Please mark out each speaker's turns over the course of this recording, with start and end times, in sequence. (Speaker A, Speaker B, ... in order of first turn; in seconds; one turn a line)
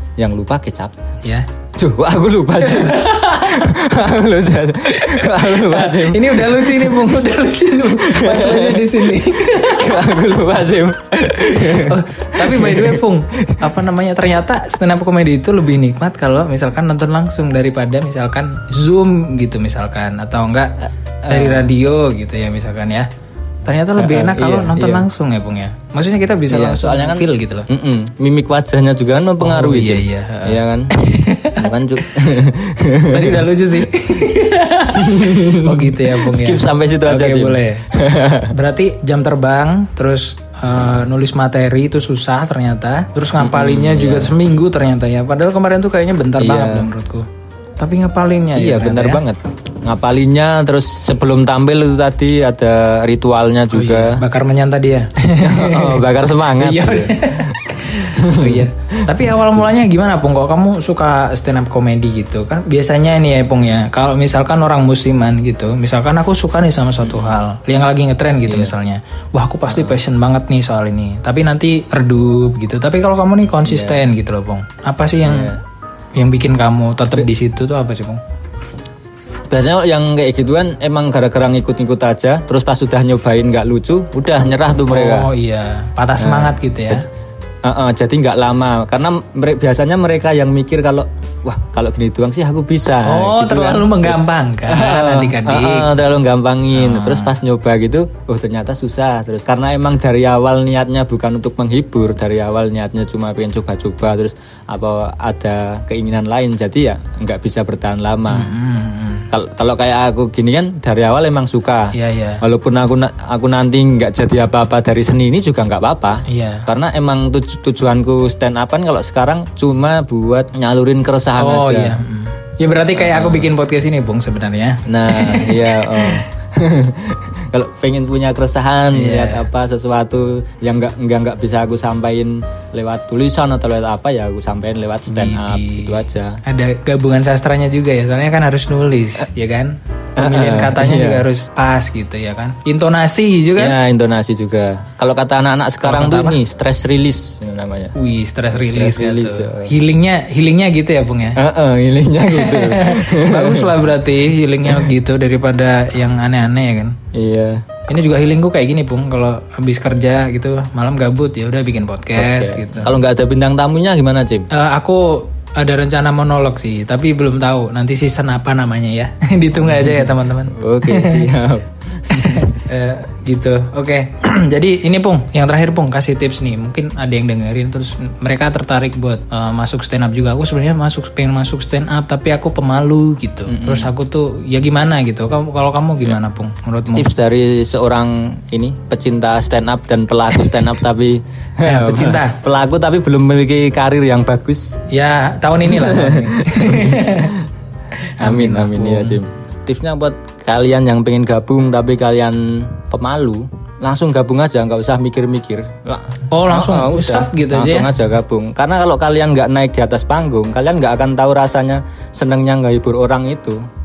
Speaker A: 0.2-1.0
Speaker A: 1.8-7.2
Speaker B: 2.6-3.7
Speaker B: 4.9-9.9
Speaker A: 8.0-13.7
Speaker B: 11.3-23.1
Speaker A: 21.2-21.7
Speaker B: 23.6-27.7
Speaker A: 24.0-25.1
Speaker A: 26.5-30.9
Speaker B: 29.4-31.6
Speaker A: 31.5-33.5
Speaker B: 33.1-37.9
Speaker A: 34.9-38.5
Speaker B: 38.5-47.3
Speaker A: 43.4-44.3
Speaker A: 46.4-46.9
Speaker B: 47.8-49.2
Speaker A: 48.5-54.2
Speaker B: 53.7-56.0
Speaker A: 55.4-59.1
Speaker B: 56.6-75.5
Speaker A: 67.0-67.4
Speaker A: 69.7-70.0
Speaker A: 73.7-74.0
Speaker A: 75.2-75.6
Speaker B: 76.1-78.2
Speaker A: 79.5-85.3
Speaker B: 84.9-87.0
Speaker A: 86.2-87.0
Speaker A: 87.6-108.5
Speaker B: 93.0-95.9
Speaker B: 96.7-97.3
Speaker B: 108.3-109.3
Speaker A: 109.3-122.0
Speaker B: 111.9-112.4
Speaker B: 116.3-116.7
Speaker B: 121.4-126.2
Speaker A: 123.0-123.5
Speaker A: 124.9-136.4
Speaker B: 128.9-129.4
Speaker B: 135.1-143.7
Speaker A: 140.2-141.2
Speaker A: 143.6-147.9
Speaker B: 145.8-146.4
Speaker B: 147.9-151.4
Speaker A: 148.5-149.7
Speaker A: 151.4-153.8
Speaker B: 152.3-157.0
Speaker A: 157.1-157.7
Speaker B: 157.9-162.9
Speaker A: 162.2-164.5
Speaker B: 164.5-171.2
Speaker A: 169.6-172.6
Speaker B: 172.1-187.1
Speaker A: 183.5-183.9
Speaker A: 186.9-194.8
Speaker B: 191.6-192.4
Speaker B: 194.9-197.3
Speaker A: 195.6-197.4
Speaker B: 198.2-199.2
Speaker A: 198.2-213.6
Speaker B: 206.3-207.9